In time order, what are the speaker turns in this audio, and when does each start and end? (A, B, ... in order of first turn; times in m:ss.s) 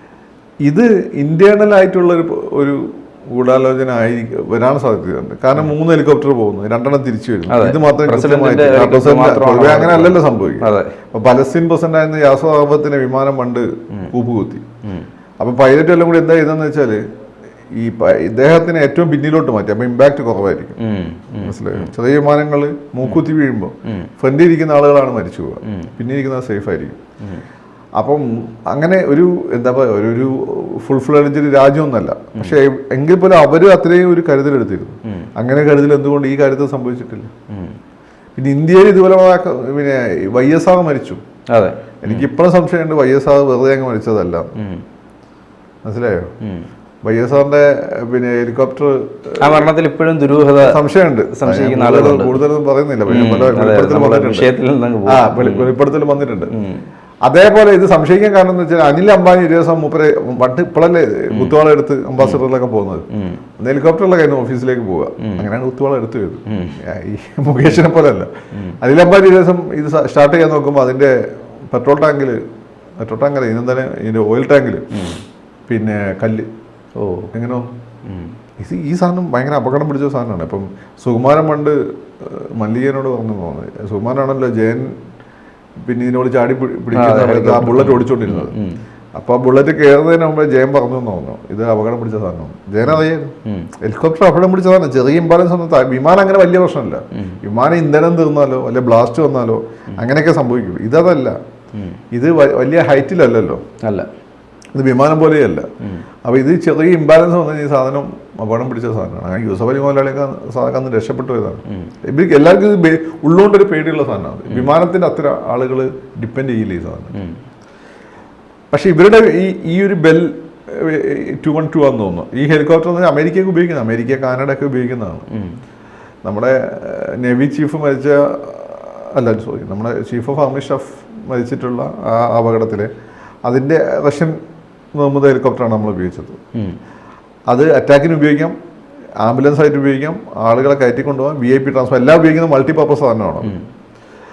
0:00.6-0:14.6 A
0:07.5-0:10.9 B
0:15.4-0:17.0 A
0:17.7-0:20.8 A
0:20.8-0:21.9 B
0:21.4-0:27.0 A
0:25.6-0:25.9 B
0:28.0-0:37.3 A
0:37.5-0:37.8 B
0:38.4-0:41.2 A
0:41.5-0:42.3 B
0:42.0-0:44.5 A
0:44.6-0:44.8 B
0:45.8-0:46.3 A
0:46.4-0:46.7 B
0:47.0-0:49.7 A
0:49.4-0:52.5 B
0:50.6-0:54.5 A
0:53.1-0:55.8 B
0:55.1-0:56.5 A
0:56.5-0:56.8 B
0:57.2-1:03.1 A
1:01.3-1:01.6 B
1:03.1-1:03.4 B
1:03.6-1:11.2 A
1:05.2-1:05.5 B
1:06.5-1:06.8 B
1:11.7-1:12.4 A
1:13.0-1:14.9 A
1:14.9-1:15.2 B
1:15.7-1:16.5 A
1:17.0-1:17.3 B
1:17.3-1:17.7 A
1:18.1-1:18.3 B
1:18.6-1:24.9 A
1:25.8-1:28.6 A
1:26.9-1:28.8 B
1:29.2-1:41.4 A
1:32.9-1:33.7 B
1:41.7-1:42.0 B
1:42.1-1:43.6 A
1:43.8-1:44.1 B
1:44.8-1:45.7 A
1:46.2-1:57.2 A
1:58.7-2:05.3 A
2:05.3-2:05.6 B
2:06.2-2:12.9 A
2:13.4-2:14.4 A
2:15.0-2:16.4 A
2:17.5-2:18.5 A
2:19.2-2:23.6 A